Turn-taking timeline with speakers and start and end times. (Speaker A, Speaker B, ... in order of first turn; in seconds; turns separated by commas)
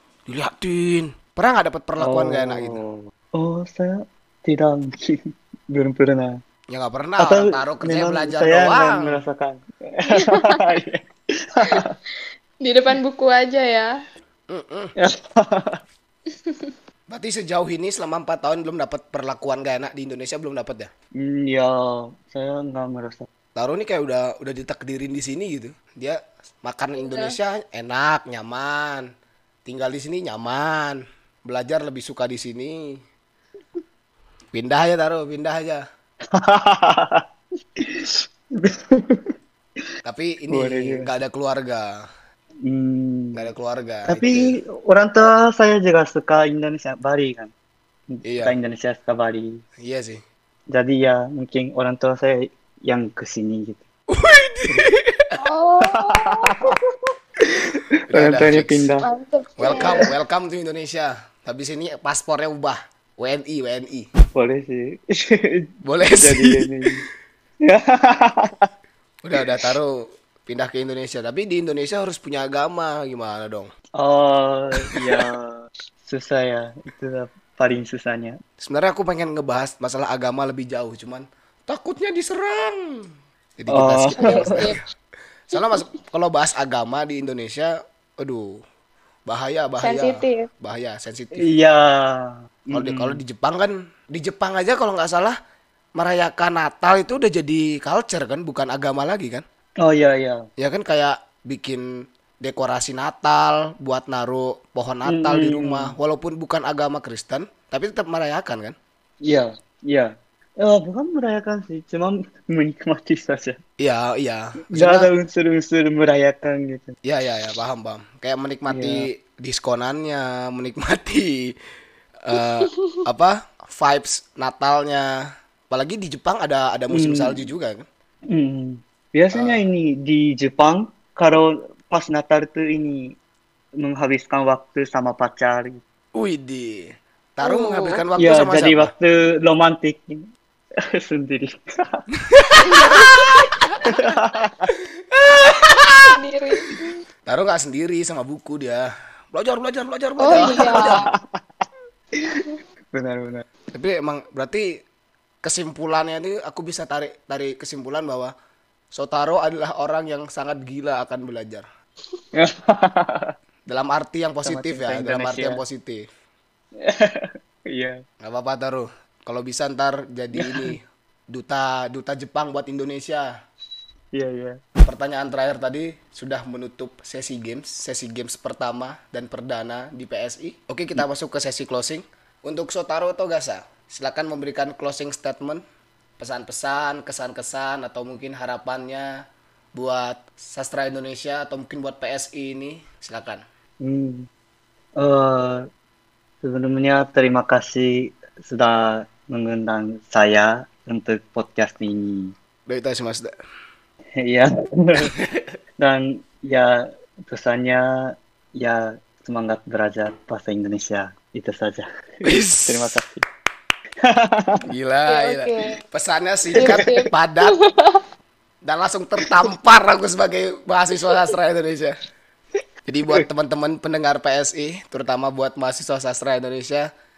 Speaker A: 0.3-2.8, Speaker B: 2.0-6.4, Speaker A: 6.7-9.2, Speaker B: 7.2-11.9, Speaker C: 10.1-10.6, Speaker C: 12.6-13.9, Speaker A: 14.5-14.9, Speaker B: 15.0-15.8, Speaker C: 16.3-16.7, Speaker A: 17.1-20.9, Speaker B: 21.2-23.2, Speaker A: 23.5-29.1, Speaker C: 27.0-27.4, Speaker A: 29.6-33.0, Speaker A: 34.5-35.8, Speaker B: 36.4-37.2, Speaker B: 37.8-39.3, Speaker A: 40.0-42.0, Speaker B: 40.5-41.1, Speaker B: 42.6-43.4, Speaker A: 43.3-44.6, Speaker B: 44.0-47.5, Speaker B: 48.1-49.6, Speaker A: 48.2-48.5, Speaker A: 49.8-50.2, Speaker B: 50.7-53.8, Speaker A: 54.1-55.3, Speaker C: 55.4-56.7, Speaker B: 55.8-56.8, Speaker B: 57.4-59.1, Speaker A: 58.1-58.9, Speaker C: 59.0-60.1, Speaker A: 59.6-64.1, Speaker B: 59.7-60.0, Speaker B: 64.3-65.6, Speaker A: 65.8-66.8, Speaker B: 66.2-67.0, Speaker B: 67.6-68.7, Speaker A: 69.2-73.7, Speaker B: 74.0-78.4, Speaker A: 74.8-75.2, Speaker A: 78.6-84.8, Speaker B: 83.7-84.5, Speaker C: 84.2-84.8, Speaker A: 85.5-88.6, Speaker C: 85.5-85.8, Speaker A: 89.3-91.5, Speaker C: 89.8-90.5, Speaker B: 91.3-93.2, Speaker A: 92.7-95.3, Speaker A: 96.0-99.4, Speaker B: 99.8-100.5, Speaker A: 100.6-108.7, Speaker B: 105.0-106.0, Speaker B: 109.2-113.6, Speaker A: 113.8-115.1, Speaker B: 114.7-116.9, Speaker A: 117.0-121.5, Speaker B: 118.7-119.1, Speaker A: 122.2-127.8, Speaker B: 126.9-127.5, Speaker B: 128.3-133.1, Speaker A: 129.3-129.6, Speaker B: 133.8-135.8, Speaker A: 136.1-138.9, Speaker C: 137.4-138.0, Speaker B: 138.2-140.2, Speaker B: 140.9-142.0, Speaker A: 142.2-144.0, Speaker C: 142.7-143.3, Speaker B: 143.9-144.7, Speaker A: 144.8-146.2, Speaker C: 146.1-146.9, Speaker A: 147.2-151.0, Speaker C: 150.2-151.1, Speaker B: 150.3-151.3, Speaker B: 152.2-153.4, Speaker A: 153.7-154.7, Speaker A: 155.4-158.3, Speaker A: 158.9-161.6, Speaker B: 162.3-163.3, Speaker A: 163.7-166.1, Speaker B: 164.4-165.6, Speaker B: 166.8-168.0, Speaker A: 168.2-173.3, Speaker B: 170.3-170.8, Speaker B: 174.1-174.6, Speaker A: 174.8-185.6, Speaker A: 186.2-189.2, Speaker A: 189.7-193.4, Speaker B: 193.8-194.3, Speaker B: 195.0-195.7, Speaker B: 196.4-202.3, Speaker A: 202.7-203.3, Speaker B: 204.2-205.2, Speaker A: 205.0-205.6, Speaker B: 205.8-211.8, Speaker A: 212.2-212.9, Speaker B: 212.6-213.2, Speaker B: 214.0-214.6, Speaker A: 214.7-217.5, Speaker C: 215.1-215.7, Speaker C: 216.6-218.0, Speaker B: 216.6-216.9, Speaker A: 218.6-222.0, Speaker A: 222.8-226.9